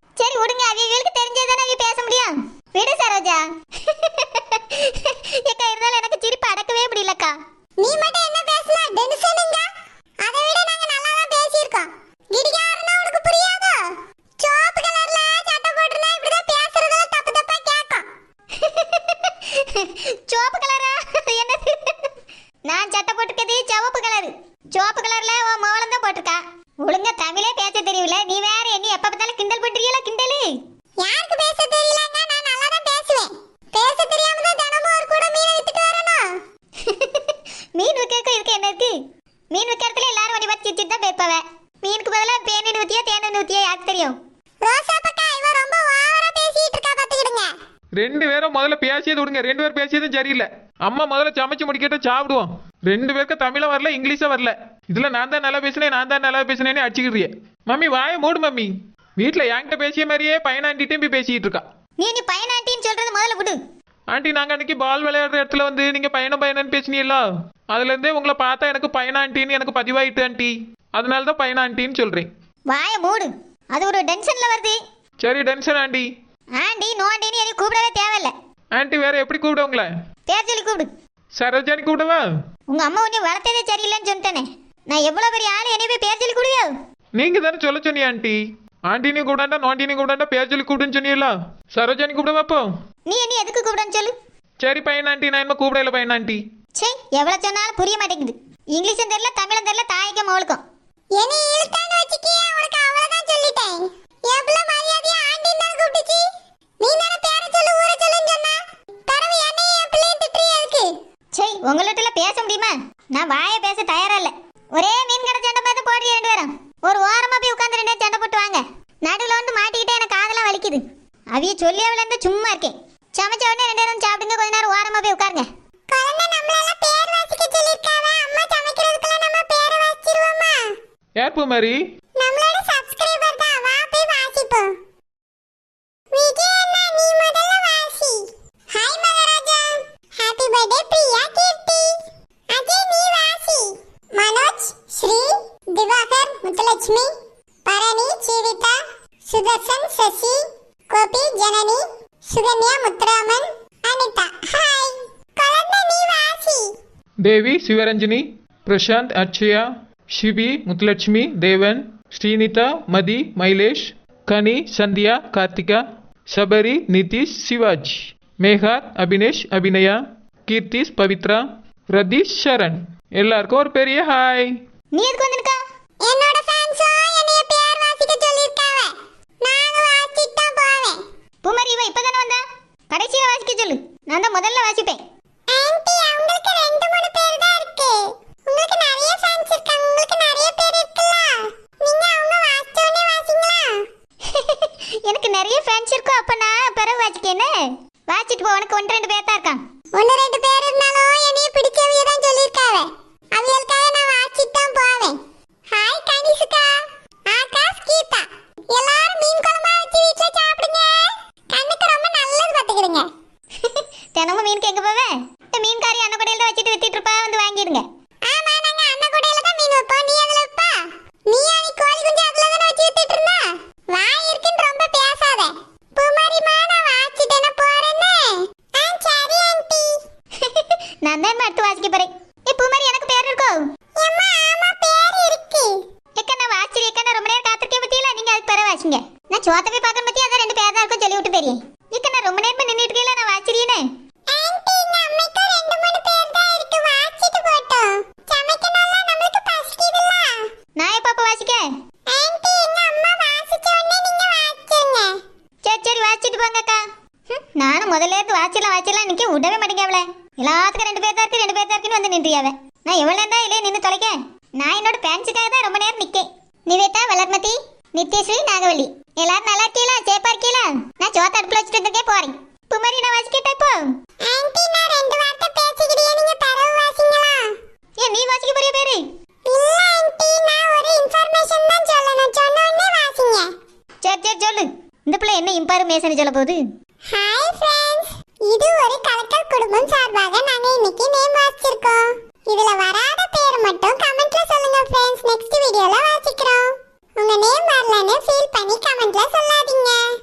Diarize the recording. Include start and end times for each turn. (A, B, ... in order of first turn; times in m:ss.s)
0:00.2-0:07.4 A
0:07.8-0:09.7 B
0:10.2-0:13.8 B
0:14.4-0:18.1 B
0:18.5-0:22.1 A
0:22.7-0:30.5 A
0:31.0-0:36.3 B
0:36.8-0:38.9 A
0:39.5-0:44.2 A
0:44.6-0:47.5 B
0:48.0-1:01.6 C
1:02.0-1:03.6 A
1:04.1-1:12.3 C
1:12.7-1:14.8 A
1:15.2-1:16.1 C
1:16.6-1:18.3 A
1:18.7-1:19.9 C
1:20.3-1:20.9 A
1:21.4-1:22.2 C
1:22.7-1:26.7 A
1:27.2-1:32.7 C
1:33.1-1:34.1 A
1:34.6-1:36.4 C
1:36.8-1:40.6 A
1:41.1-1:46.3 B
1:46.8-1:50.9 B
1:51.3-2:00.8 A
2:01.3-2:05.4 A
2:05.9-2:10.7 B
2:11.2-2:11.8 C
2:12.2-2:14.8 B
2:16.1-2:27.1 B
2:27.6-2:36.7 B
2:37.2-2:54.5 C
2:54.9-2:55.6 A
2:56.0-3:01.0 B
3:01.4-3:05.0 A
3:05.5-3:13.8 B
3:14.3-3:17.5 A
3:18.1-3:19.6 A
3:19.9-3:25.2 B
3:25.7-3:26.8 B
3:27.3-3:33.1 B
3:33.6-3:37.8 A
3:38.2-3:50.0 B
3:50.4-3:53.6 A
3:54.0-3:55.7 B
3:56.2-4:03.8 A
4:04.3-4:10.4 B
4:10.8-4:11.6 A
4:12.1-4:15.2 B
4:15.6-4:33.9 A
4:34.2-4:37.5 B
4:38.0-4:39.0 A
4:39.5-4:43.5 B
4:44.0-4:46.6 A
4:47.1-5:00.1 B